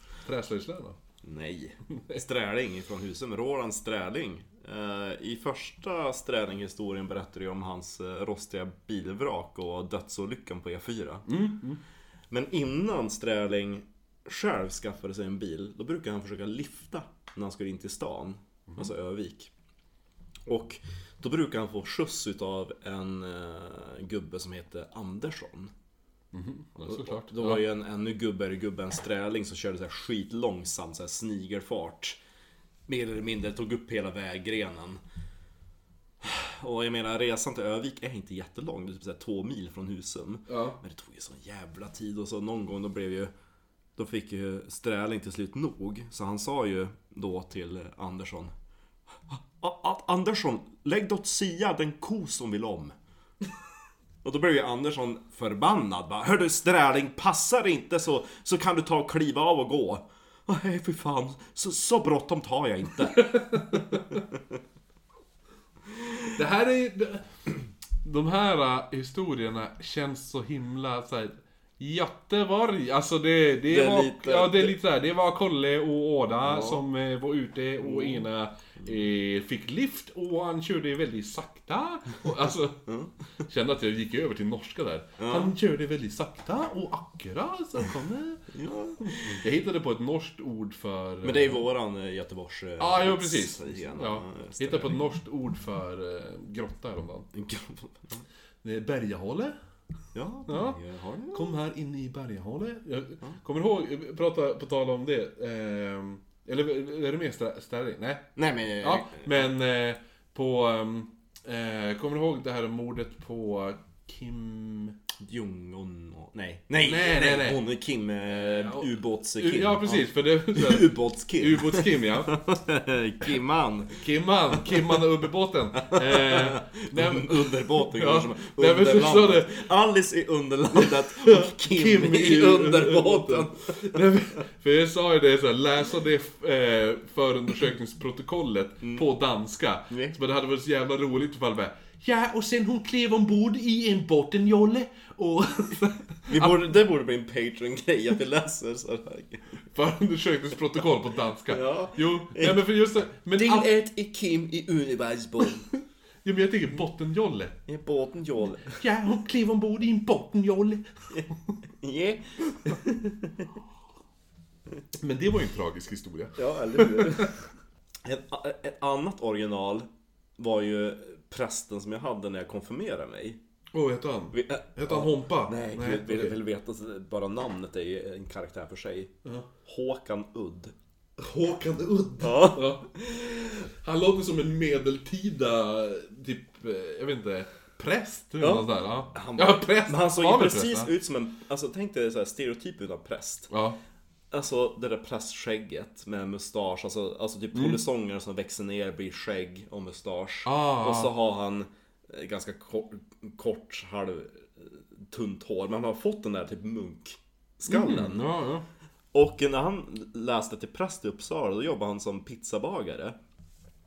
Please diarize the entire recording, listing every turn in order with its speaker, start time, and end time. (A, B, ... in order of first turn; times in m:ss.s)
0:00.3-0:01.0 A
0:01.2-0:11.3 B
0:11.3-0:11.8 A
0:12.3-0:19.5 B
0:20.5-0:25.7 B
0:26.3-0:27.6 A
0:26.9-0:32.2 B
0:32.9-0:35.0 B
0:36.2-0:43.3 B
0:40.5-0:40.8 A
0:44.0-0:48.5 B
0:49.3-0:53.0 B
0:54.2-1:03.3 B
1:03.2-1:04.0 A
1:06.3-1:07.2 A
1:08.0-1:22.8 A
1:13.7-1:14.8 B
1:16.4-1:16.8 B
1:17.8-1:18.2 B
1:22.9-1:23.1 B
1:23.5-1:28.4 A
1:25.2-1:25.5 B
1:28.5-1:29.2 B
1:29.0-1:31.6 A
1:31.2-1:35.0 B
1:32.8-1:37.3 A
1:37.3-1:38.2 B
1:38.6-1:39.5 A
1:40.1-1:41.6 B
1:40.5-1:40.8 A
1:41.3-1:48.2 A
1:48.4-1:49.5 B
1:48.8-1:55.0 A
1:55.2-2:04.0 B
1:56.8-1:57.6 A
1:58.3-2:02.4 A
2:04.0-2:09.6 A
2:05.9-2:13.8 B
2:10.8-2:26.7 A
2:19.9-2:20.2 B
2:26.3-2:29.6 B
2:29.7-2:33.7 A
2:31.5-2:32.6 B
2:33.4-2:35.7 B
2:36.2-2:37.6 A
2:37.7-2:38.8 B
2:38.6-2:40.8 A
2:41.8-2:43.5 B
2:45.0-2:47.3 A
2:46.4-2:47.3 B
2:48.0-2:49.9 B
2:50.4-2:53.4 B
2:53.7-2:56.3 A
2:54.3-2:59.1 B
2:59.6-3:00.7 B
3:01.2-3:10.9 A
3:02.2-3:02.7 B
3:08.4-3:13.5 B
3:13.5-3:13.8 A
3:14.3-3:28.2 B
3:20.4-3:21.1 A
3:27.7-3:28.6 A
3:29.1-3:33.2 B